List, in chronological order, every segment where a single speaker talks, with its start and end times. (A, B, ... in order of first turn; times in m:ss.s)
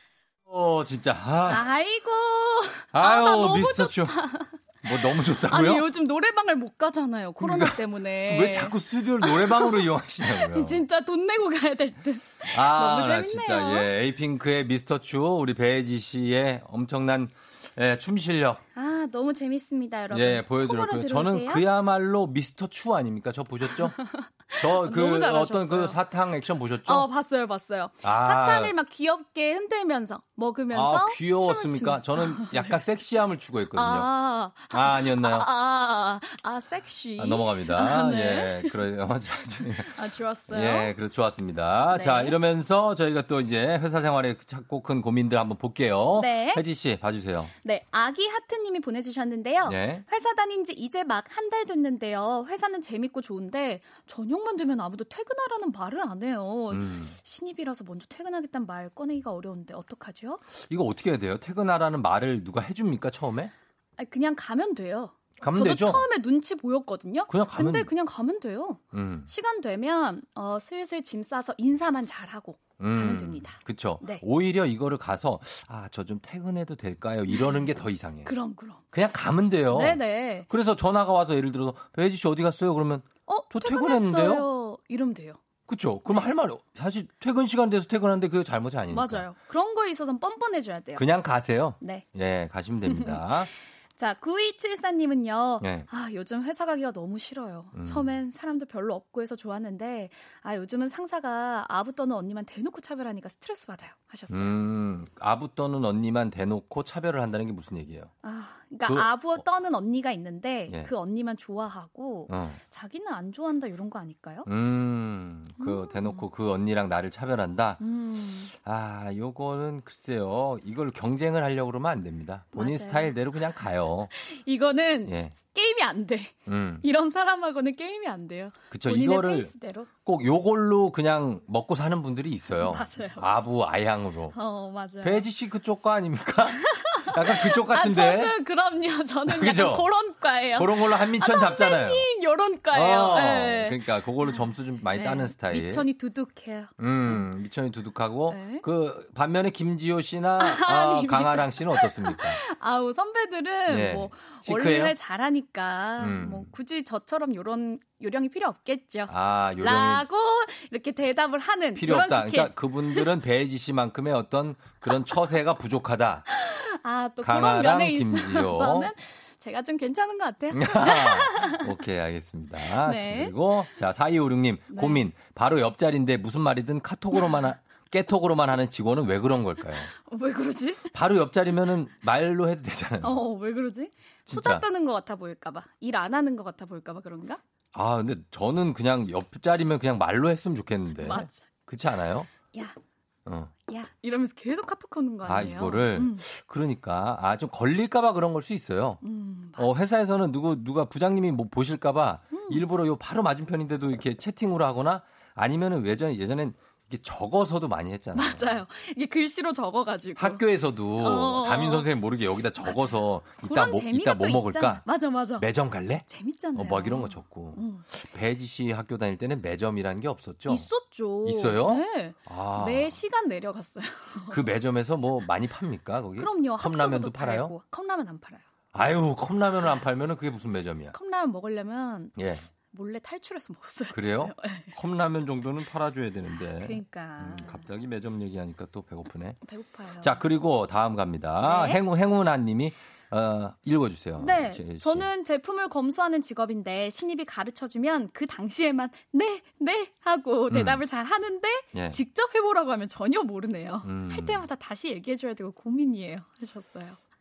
0:00.5-0:01.6 A
0:01.5-0:04.5 B
0:02.9-0:04.2 A
0:04.8-0:05.9 A
0:05.4-0:13.9 B
0:07.4-0:10.8 A
0:12.5-0:18.6 A
0:18.8-0:21.7 B
0:20.1-0:24.0 A
0:23.7-0:26.0 B
0:24.6-0:27.1 A
0:26.9-0:32.8 B
0:28.0-0:28.8 A
0:30.7-0:34.1 A
0:33.8-0:38.7 B
0:34.7-0:35.5 A
0:37.2-0:47.5 A
0:39.8-0:40.9 B
0:41.9-0:42.4 B
0:46.2-0:46.6 B
0:47.6-1:00.4 B
0:49.6-0:50.0 A
0:56.7-0:57.2 A
1:00.6-1:03.5 A
1:04.0-1:14.2 B
1:05.4-1:06.0 A
1:07.3-1:07.9 A
1:08.9-1:09.3 A
1:12.8-1:18.3 A
1:17.3-1:17.6 B
1:18.2-1:18.8 B
1:18.9-1:24.5 A
1:19.7-1:20.5 B
1:23.3-1:25.4 B
1:25.7-1:29.3 A
1:28.9-1:31.1 B
1:31.0-1:33.5 A
1:31.8-1:32.1 B
1:32.9-1:33.2 B
1:34.0-1:44.6 B
1:35.6-1:35.9 A
1:37.8-1:38.2 A
1:44.3-1:48.1 A
1:48.2-1:54.5 B
1:48.8-1:49.4 A
1:52.3-1:52.6 A
1:54.5-1:57.8 A
1:55.6-1:56.2 B
1:57.8-1:58.5 B
1:58.6-2:04.1 A
2:02.5-2:03.2 B
2:04.2-2:09.9 B
2:05.0-2:05.3 A
2:06.5-2:06.8 A
2:08.7-2:09.5 A
2:10.0-2:14.4 A
2:12.5-2:13.4 B
2:14.3-2:15.3 B
2:15.0-2:18.4 A
2:16.6-2:24.4 B
2:19.3-2:19.9 A
2:20.6-2:22.0 A
2:22.7-2:25.9 A
2:24.9-2:27.3 B
2:26.8-2:32.4 A
2:28.3-2:28.6 B
2:30.4-2:43.1 B
2:33.7-2:35.0 A
2:36.0-2:36.5 A
2:39.1-2:40.1 A
2:41.8-2:46.3 A
2:46.3-2:51.7 B
2:47.2-2:48.9 A
2:50.5-2:59.9 A
2:52.7-2:53.4 B
2:54.7-2:55.1 B
2:59.9-3:00.9 B
3:00.9-3:03.2 A
3:03.0-3:07.4 B
3:04.3-3:04.7 A
3:07.7-3:12.3 A
3:11.0-3:11.5 B
3:13.3-3:13.5 A
3:13.6-3:16.3 B
3:15.3-3:19.0 A
3:19.0-3:19.8 B
3:19.6-3:28.6 A
3:22.3-3:22.6 B
3:28.2-3:30.4 B
3:30.2-3:40.7 A
3:31.0-3:31.9 B
3:32.6-3:35.5 B
3:36.1-3:37.9 B
3:40.5-3:44.4 B
3:41.2-3:43.0 A
3:44.3-3:47.6 A
3:46.2-3:48.4 B
3:48.7-3:51.0 A
3:50.9-3:54.8 B
3:52.2-3:52.5 A
3:53.9-3:59.4 A
3:56.5-3:57.6 B
3:59.4-4:00.2 B
4:00.0-4:05.1 A
4:01.4-4:01.8 B
4:04.2-4:17.0 B
4:10.5-4:10.8 A
4:11.7-4:12.0 A
4:13.8-4:14.4 A